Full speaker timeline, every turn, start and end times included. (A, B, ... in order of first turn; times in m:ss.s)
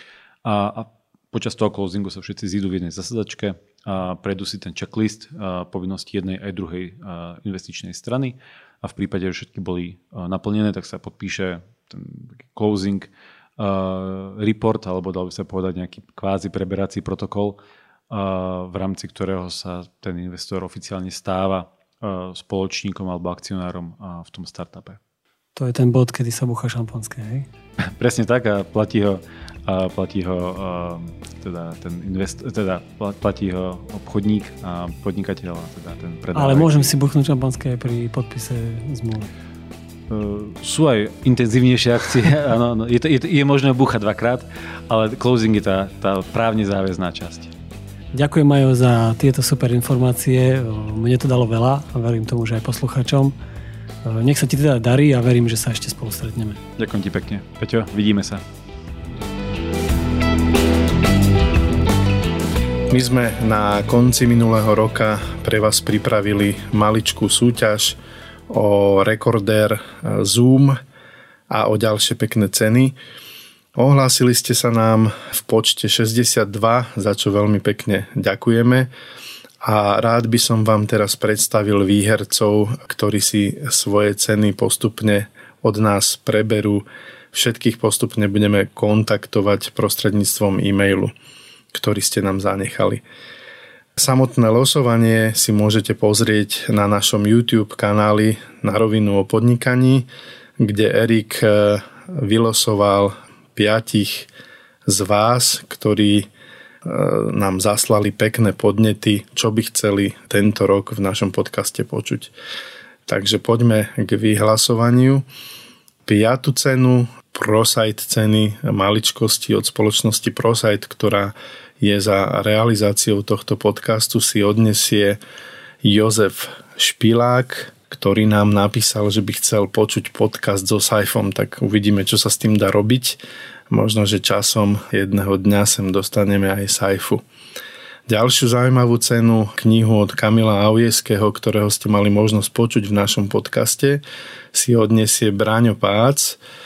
0:00.4-0:17.6 A
0:18.1-0:25.0 A
0:25.5-0:27.5 B
0:27.8-0:36.9 A
0:36.3-0:39.3 B
0:40.1-0:47.5 A
0:48.1-0:53.3 B
0:54.0-0:56.6 B
0:56.8-0:58.4 A
1:02.9-1:08.0 C
1:08.5-1:10.8 C
1:11.5-1:12.9 C
1:13.8-1:18.9 C
1:19.6-1:31.1 C
1:31.7-1:33.0 C
1:34.0-1:40.0 C
1:40.6-1:44.3 C
1:44.9-1:46.3 C
1:46.8-1:52.3 C
1:53.1-1:55.2 C
1:56.0-2:05.2 C
2:05.8-2:13.2 C
2:13.7-2:17.2 C
2:18.1-2:24.0 C
2:24.5-2:26.4 C